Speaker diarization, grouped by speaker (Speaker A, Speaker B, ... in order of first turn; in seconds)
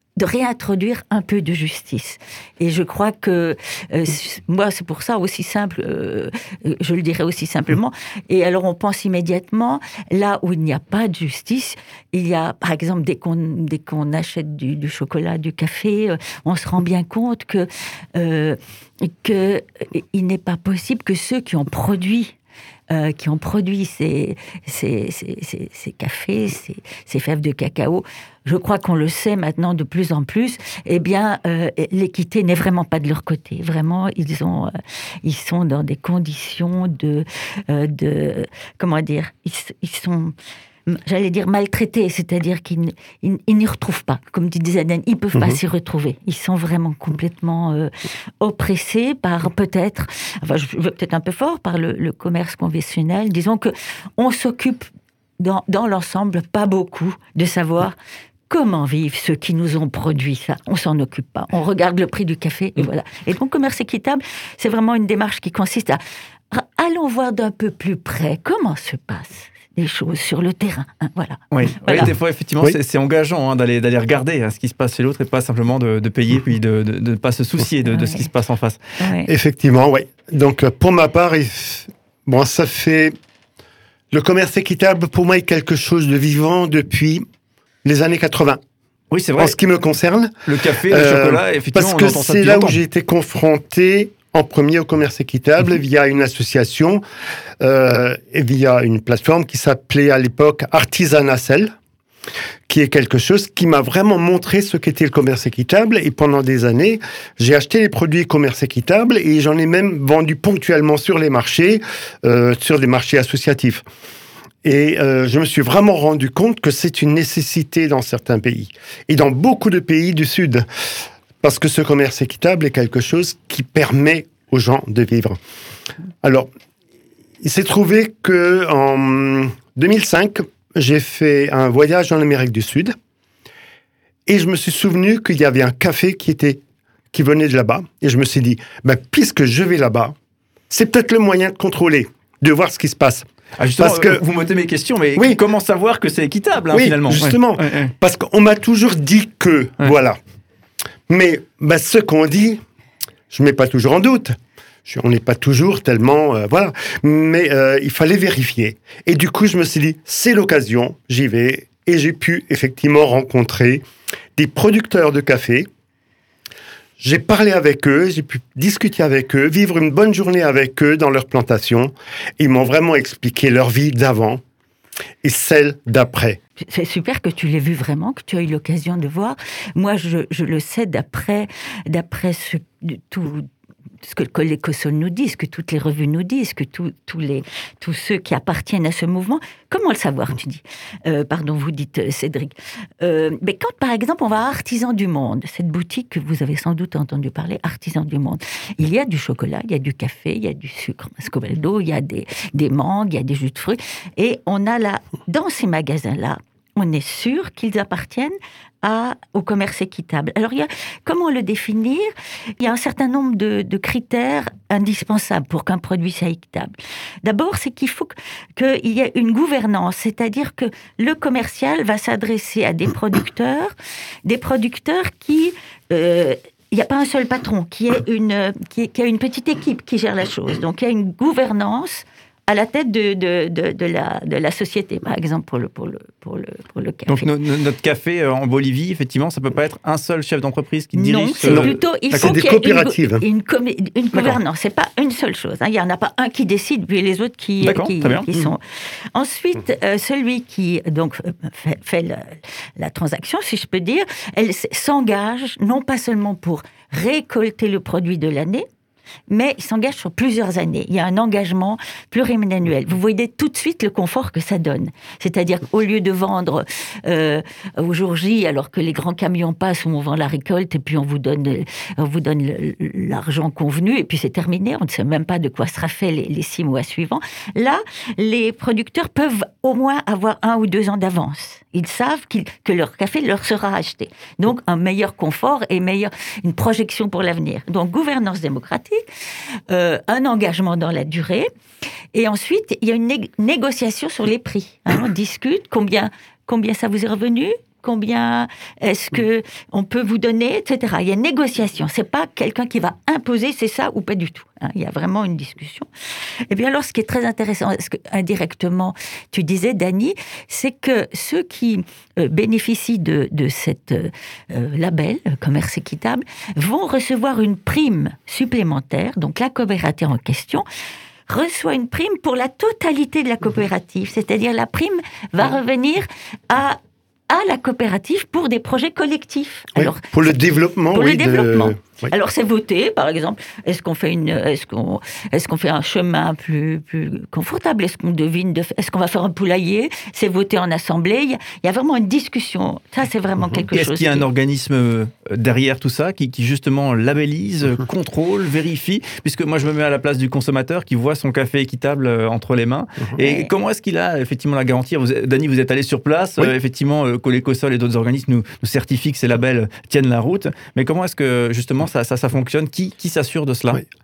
Speaker A: 0.2-22.3, 22.9-40.3, 40.9-54.9, 55.4-58.0, 58.5-72.1, 77.9-78.3, 79.0-79.3, 176.6-183.5, 184.0-212.1, 212.6-223.7, 224.2-237.3, 240.9-248.6, 249.1-258.6, 259.3-289.0, 289.7-291.5, 292.1-305.9, 306.5-320.6, 321.3-326.8, 327.3-330.3, 330.9-344.3, 353.2-353.5
Speaker B: 71.5-78.8, 89.1-89.6, 90.5-92.8, 143.6-147.9, 237.1-242.3, 247.6-248.3, 343.7-363.8
Speaker C: 79.3-83.1, 84.1-87.2, 87.8-88.6, 89.4-97.0, 97.6-101.7, 102.7-113.8, 114.6-120.7, 121.4-125.4, 126.2-126.5, 127.4-132.9, 134.3-136.6, 137.1-140.2, 140.7-143.2, 143.8-144.2, 146.7-150.2, 151.1-152.6, 153.3-154.3, 154.9-163.8, 164.4-165.7, 167.0-174.4, 175.2-176.4, 241.4-243.2, 329.8-332.1